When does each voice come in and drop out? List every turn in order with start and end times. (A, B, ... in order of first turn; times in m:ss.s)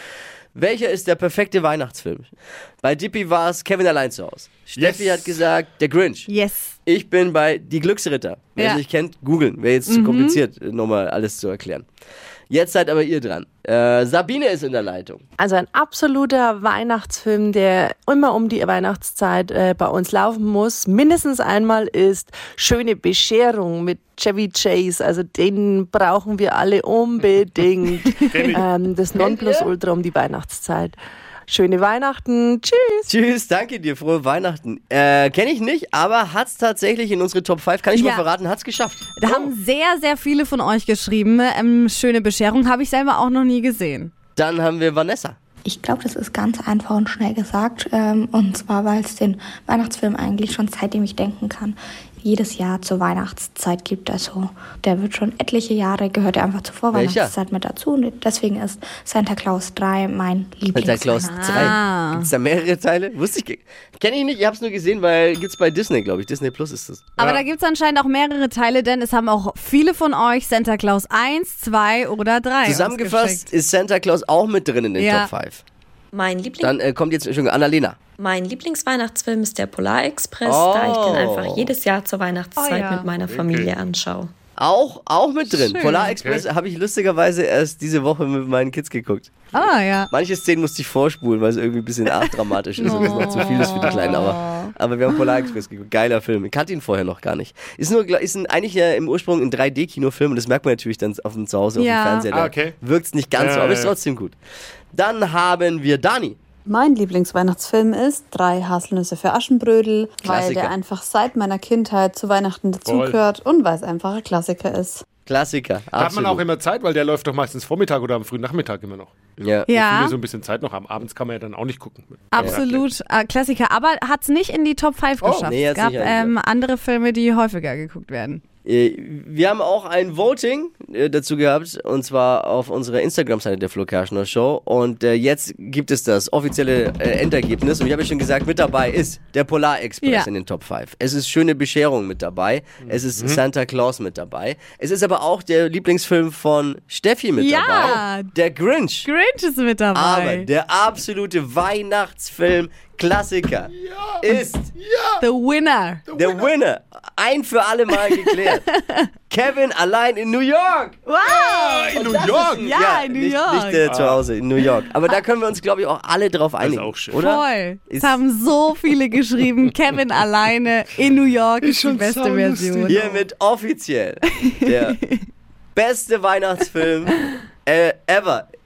0:00.5-0:02.3 A
0:02.8-0:06.3 A
0:04.8-0:05.3 B
0:06.3-0:06.7 C
0:06.8-0:11.8 A
0:09.9-0:10.4 C
0:12.5-0:15.2 A
0:15.4-0:31.0 D
0:28.3-0:28.6 B
0:29.2-0:29.7 A
0:31.5-0:33.1 D
0:33.1-0:39.5 A
0:37.9-0:38.2 C
0:39.2-0:44.1 C
0:44.4-0:45.4 A
0:45.6-1:01.8 E
0:56.9-0:57.3 A
1:00.7-1:07.2 A
1:01.1-1:02.3 C
1:07.2-1:13.5 C
1:07.2-1:07.4 B
1:12.6-1:15.6 A
1:15.0-1:15.3 C
1:16.1-1:16.8 F
1:16.6-1:18.0 A
1:18.2-1:24.3 F
1:20.4-1:21.6 A
1:22.6-1:23.1 C
1:23.2-1:23.7 B
1:24.6-1:29.3 A
1:25.5-1:26.1 C
1:26.2-1:26.4 B
1:29.5-1:30.1 C
1:30.1-1:44.3 A
1:32.1-1:34.7 C
1:32.8-1:34.0 B
1:41.8-1:42.3 C
1:42.3-1:42.7 B
1:43.3-1:43.9 B
1:44.9-1:46.4 A
1:46.7-1:55.0 G
1:50.2-1:50.7 A
1:52.8-1:53.2 B
1:55.2-1:56.4 A
1:55.9-1:59.2 B
1:59.4-1:59.7 A
1:59.7-2:00.2 C
1:59.7-2:02.8 B
2:02.3-2:08.4 C
2:02.4-2:02.6 A
2:05.2-2:05.5 B
2:05.4-2:06.3 A
2:08.6-2:29.1 A
2:20.0-2:20.3 C
2:22.8-2:23.4 B
2:27.4-2:28.3 C
2:29.0-2:30.5 C
2:29.9-2:34.7 A
2:33.8-2:34.2 B
2:34.7-2:35.2 B
2:35.2-2:36.0 C
2:36.1-2:36.5 B
2:36.1-2:38.6 A
2:38.1-2:39.1 C
2:39.3-2:41.0 A
2:41.0-2:43.8 C
2:41.2-2:42.8 B
2:41.9-2:48.2 A
2:43.8-2:44.3 B
2:46.6-2:47.3 B
2:47.2-2:53.0 C
2:51.6-2:53.2 B
2:52.9-2:55.0 A
2:54.4-2:55.2 C
2:55.7-2:58.5 A